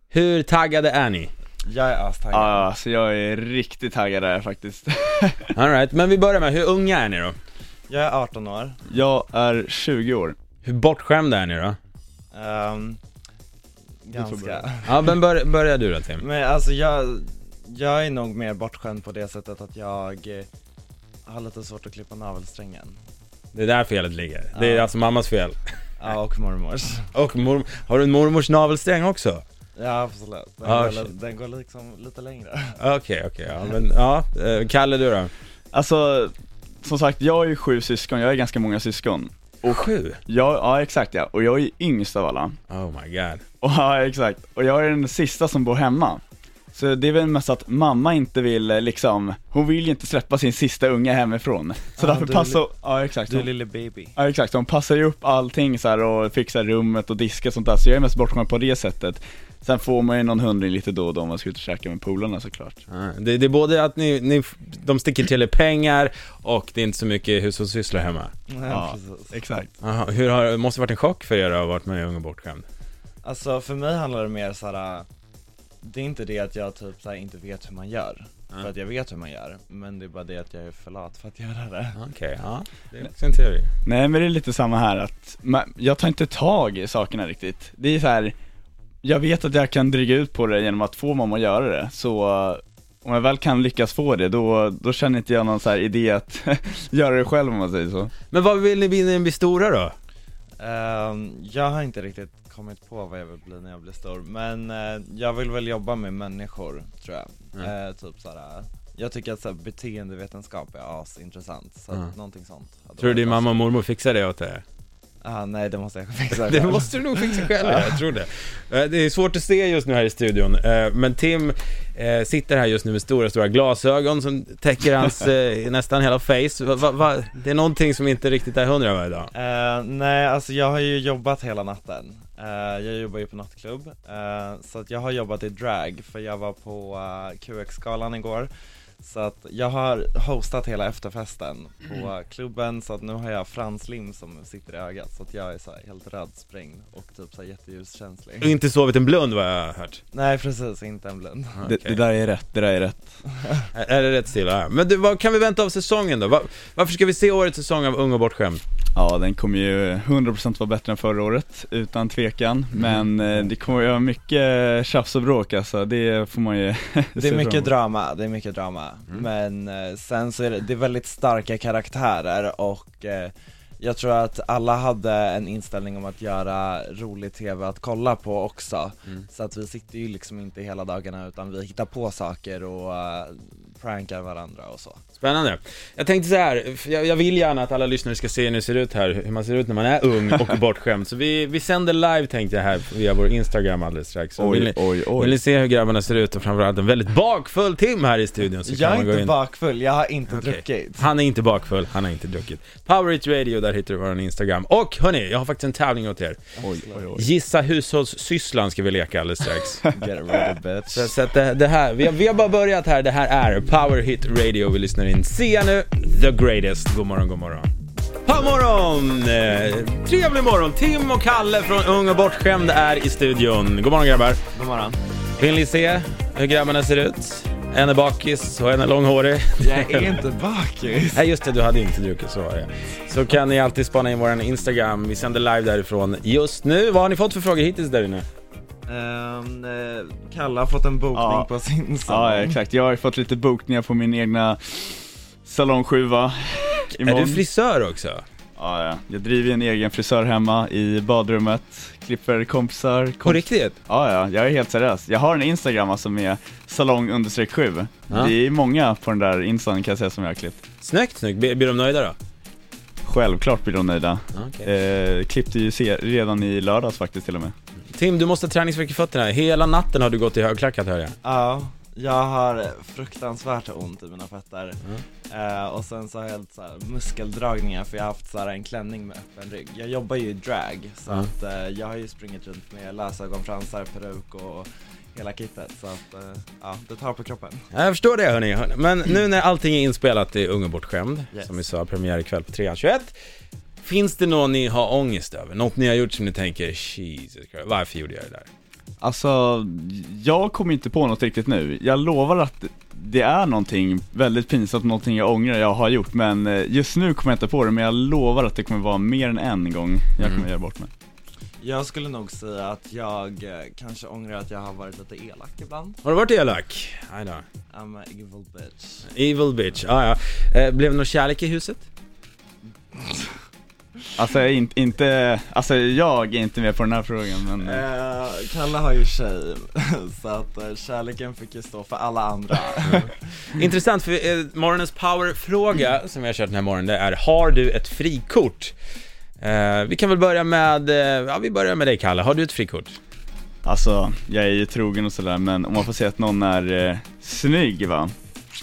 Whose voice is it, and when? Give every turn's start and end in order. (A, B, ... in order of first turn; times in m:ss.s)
0:00.1-0:01.3 A
0:01.6-0:02.7 B
0:02.3-0:05.5 C
0:05.6-0:07.4 A
0:07.9-0:08.8 B
0:08.9-0:10.4 C
0:10.6-0:11.8 A
0:12.3-0:13.0 B
0:14.1-0:15.1 B
0:14.1-0:14.6 C
0:14.8-0:16.2 A
0:16.2-0:20.5 B
0:21.3-0:23.0 B
0:23.5-0:25.6 A
0:24.5-0:24.9 B
0:26.0-0:27.1 B
0:27.1-0:29.4 A
0:29.8-0:32.8 B
0:30.6-0:31.1 A
0:32.8-0:35.3 A
0:35.7-0:42.6 C
0:39.6-0:40.2 A
0:42.7-0:43.4 A
0:43.6-0:46.2 C
0:46.7-0:53.5 C
0:52.0-0:52.7 B
0:53.3-0:54.2 B
0:54.2-1:02.8 C
1:02.9-1:08.3 A
1:08.5-1:09.4 B
1:08.7-1:09.7 C
1:09.8-1:12.6 A
1:13.2-1:15.1 B
1:15.8-1:22.0 B
1:22.0-1:23.7 A
1:23.8-1:28.3 C
1:29.0-1:38.1 C
1:38.3-1:40.0 A
1:40.6-1:53.6 B
1:53.0-1:54.6 A
1:55.2-1:58.0 B
1:56.3-2:09.3 A
2:09.3-2:28.6 B
2:28.4-2:30.0 A
2:30.1-2:31.6 B
2:31.6-2:32.0 A
2:31.7-2:33.1 C
2:33.7-2:38.6 A
2:39.0-2:47.7 C
2:42.8-2:43.0 A
2:47.2-3:05.0 B
3:05.2-3:19.3 A
3:14.4-3:15.4 C
3:18.6-3:21.1 B
3:20.3-3:26.4 A
3:26.6-3:27.1 B
3:26.6-3:27.3 C
3:27.2-3:29.8 A
3:29.9-3:31.1 B
3:30.9-3:37.7 A
3:38.2-3:44.4 A
3:44.6-3:45.0 B
3:45.4-3:50.2 A
3:49.6-3:51.2 B
3:51.1-3:58.2 A
3:58.9-4:02.6 B
4:01.1-4:01.5 C
4:02.1-4:07.4 C
4:07.0-4:08.2 A
4:08.6-4:20.6 C
4:13.2-4:13.8 A
4:20.8-4:22.2 A
4:23.0-4:27.5 C
4:24.3-4:24.7 A
4:27.9-4:31.2 A
4:31.2-4:47.7 B
4:47.7-4:53.1 A
4:53.8-4:58.5 A
4:59.0-5:10.9 C
5:10.2-5:10.4 A
5:11.6-5:16.0 B
5:16.0-5:17.4 A
5:17.7-5:19.1 B
5:19.1-5:21.8 A
5:22.9-5:23.3 B
5:24.2-5:27.8 C
5:27.6-5:33.1 B
5:33.5-5:38.7 A
5:39.4-5:43.0 A
5:43.6-5:48.1 C